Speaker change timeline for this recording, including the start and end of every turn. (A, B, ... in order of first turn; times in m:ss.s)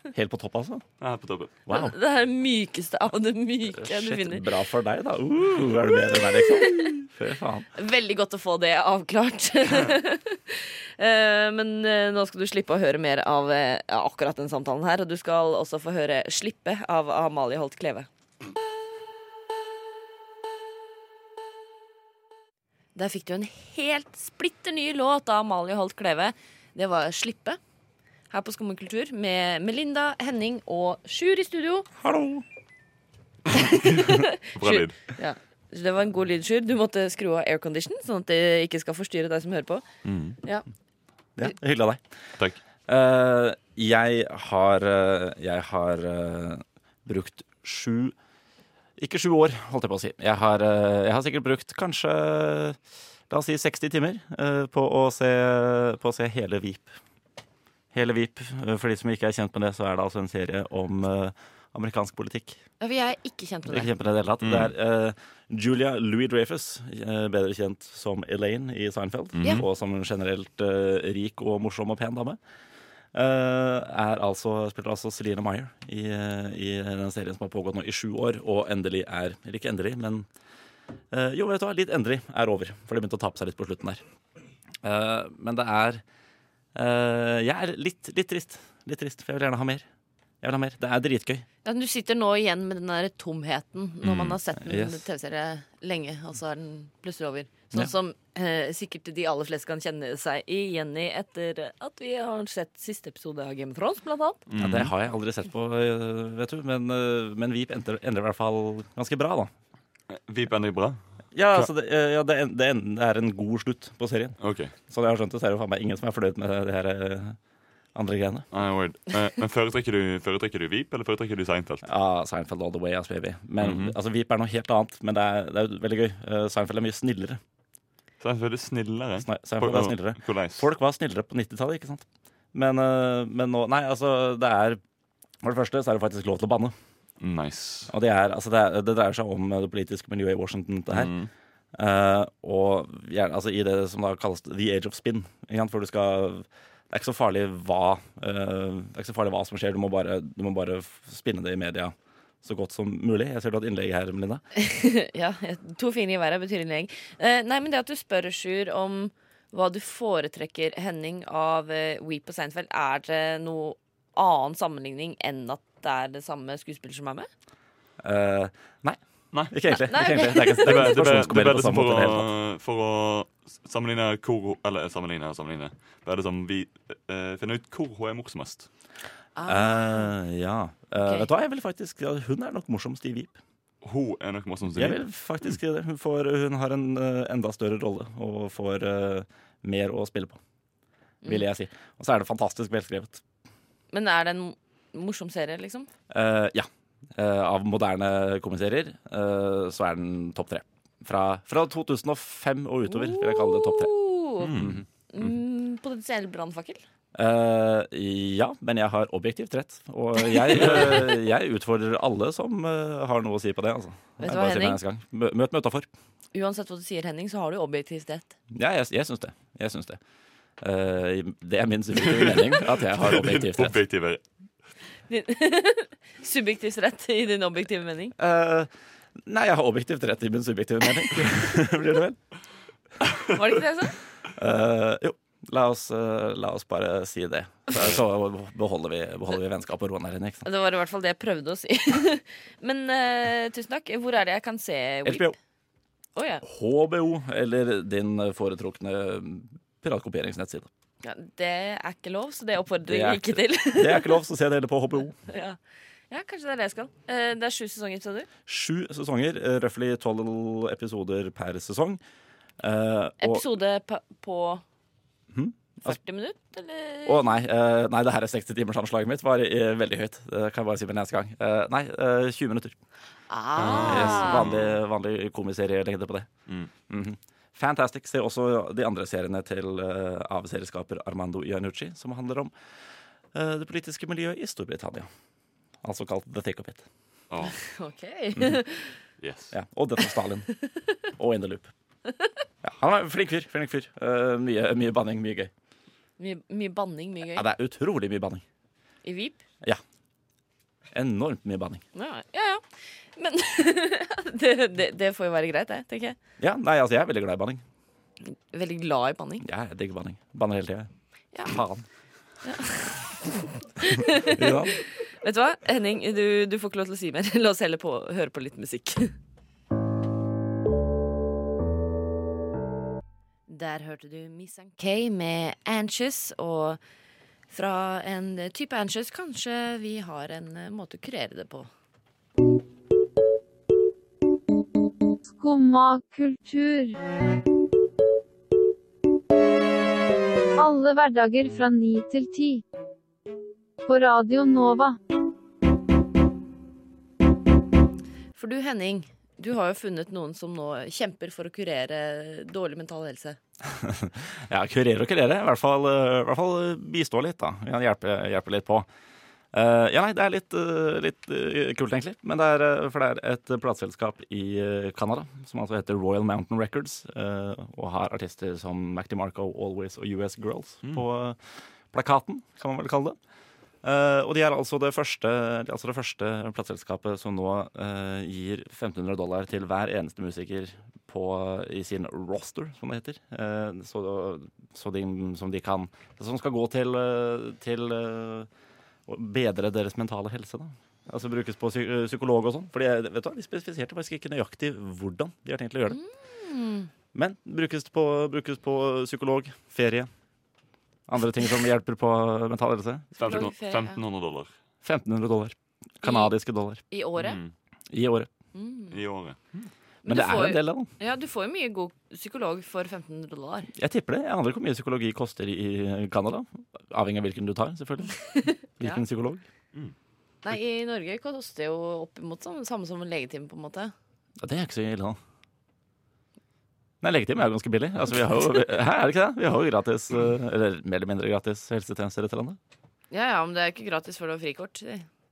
0:00.1-0:00.8 A
0:01.0-0:01.5 B
0:01.7-0:02.0 A
0:01.7-0:04.5 C
0:03.7-0:07.7 A
0:06.1-0:06.9 C
0:07.7-0:18.1 C
0:23.0-0:27.6 C
0:28.3-0:31.9 C
0:32.0-0:32.4 A
0:33.5-0:39.8 C
0:33.7-0:35.0 B
0:40.0-0:40.4 B
0:41.4-0:42.0 A
0:42.9-0:48.1 A
0:49.0-0:52.8 A
0:53.3-0:56.9 A
0:57.9-1:02.6 A
1:02.8-1:03.9 C
1:03.7-1:12.4 A
1:04.4-1:04.7 B
1:09.4-1:09.6 B
1:13.1-1:20.3 A
1:21.1-1:24.0 A
1:24.8-1:26.0 A
1:26.7-1:29.8 A
1:30.4-1:31.4 A
1:31.6-1:44.4 C
1:34.0-1:34.4 B
1:34.6-1:35.0 A
1:44.5-1:44.9 B
1:44.6-1:49.5 A
1:50.1-1:51.0 B
1:51.3-1:54.4 A
1:54.4-1:54.7 B
1:54.9-1:57.4 A
1:57.9-1:58.4 A
1:58.5-2:01.9 B
2:01.8-2:07.4 A
2:03.6-2:04.0 B
2:08.2-2:10.7 B
2:09.2-2:14.8 A
2:15.4-2:16.7 A
2:17.2-2:17.9 B
2:17.9-2:21.1 A
2:20.9-2:21.3 B
2:21.7-2:34.4 A
2:34.6-2:47.3 C
2:48.0-2:52.3 A
2:49.7-2:50.9 C
2:50.6-2:58.7 B
2:59.4-3:00.1 C
2:59.4-3:03.4 A
3:01.0-3:01.3 C
3:03.8-3:05.0 B
3:04.7-3:10.4 A
3:11.2-3:13.2 A
3:13.9-3:15.9 C
3:16.1-3:23.9 A
3:22.9-3:24.6 C
3:24.4-3:24.8 B
3:24.5-3:24.8 A
3:25.1-3:26.8 C
3:27.1-3:35.9 A
3:30.3-3:30.8 C
3:34.2-3:34.8 C
3:36.3-3:38.3 C
3:38.5-3:40.0 A
3:40.6-3:43.8 A
3:42.0-3:44.2 B
3:45.1-3:48.1 C
3:48.2-3:48.7 A
3:49.2-3:52.2 A
3:53.3-3:54.0 C
3:54.3-4:00.5 A
4:00.4-4:05.3 C
4:05.0-4:05.4 A
4:06.2-4:06.4 C
4:06.4-4:10.7 A
4:11.0-4:14.2 C
4:12.9-4:15.2 A
4:15.3-4:15.6 C
4:16.1-4:18.3 C
4:18.5-4:22.0 A
4:22.6-4:23.4 A
4:23.2-4:24.6 C
4:25.3-4:26.0 A
4:25.8-4:27.4 C
4:27.0-4:32.8 A
4:33.3-4:34.5 C
4:33.6-4:34.8 B
4:33.6-4:36.3 A
4:36.9-4:42.5 A
4:43.3-4:45.1 A
4:45.8-4:46.8 A
4:47.3-4:47.6 B
4:47.5-4:49.0 C
4:49.2-4:49.5 B
4:49.5-4:50.5 A
4:51.2-4:51.7 A
4:52.6-4:55.5 A
4:56.2-4:57.4 C
4:57.3-4:58.4 A
4:59.0-4:59.4 C
5:00.9-5:01.8 A
5:01.9-5:02.6 C
5:03.1-5:06.2 C
5:06.4-5:07.6 A
5:08.2-5:09.4 C
5:09.4-5:10.9 A
5:11.4-5:11.8 A
5:12.4-5:19.1 C
5:14.1-5:14.8 A
5:23.5-5:26.8 C
5:27.5-5:31.7 C
5:35.3-5:37.0 D
5:40.6-5:42.6 D
5:43.9-5:45.0 D
5:48.3-5:53.4 C
5:53.7-5:58.8 A
5:59.5-6:11.4 A
6:11.9-6:13.2 A
6:13.8-6:28.5 A
6:29.1-6:36.0 A
6:35.9-6:36.9 C
6:37.1-6:40.1 A
6:41.1-6:43.4 A
6:43.2-6:44.5 B
6:43.2-6:44.0 C
6:44.8-6:46.8 A
6:46.0-6:46.3 C
6:46.9-6:47.4 C
6:47.2-6:47.5 B
6:47.9-6:48.3 A
6:48.5-6:49.0 C
6:48.9-6:49.7 B
6:50.0-6:53.7 C
6:50.0-6:50.9 A
6:53.8-6:59.4 A
6:58.3-6:59.0 C
7:00.4-7:03.9 C
7:04.4-7:05.2 A
7:07.0-7:12.6 A
7:13.1-7:15.0 C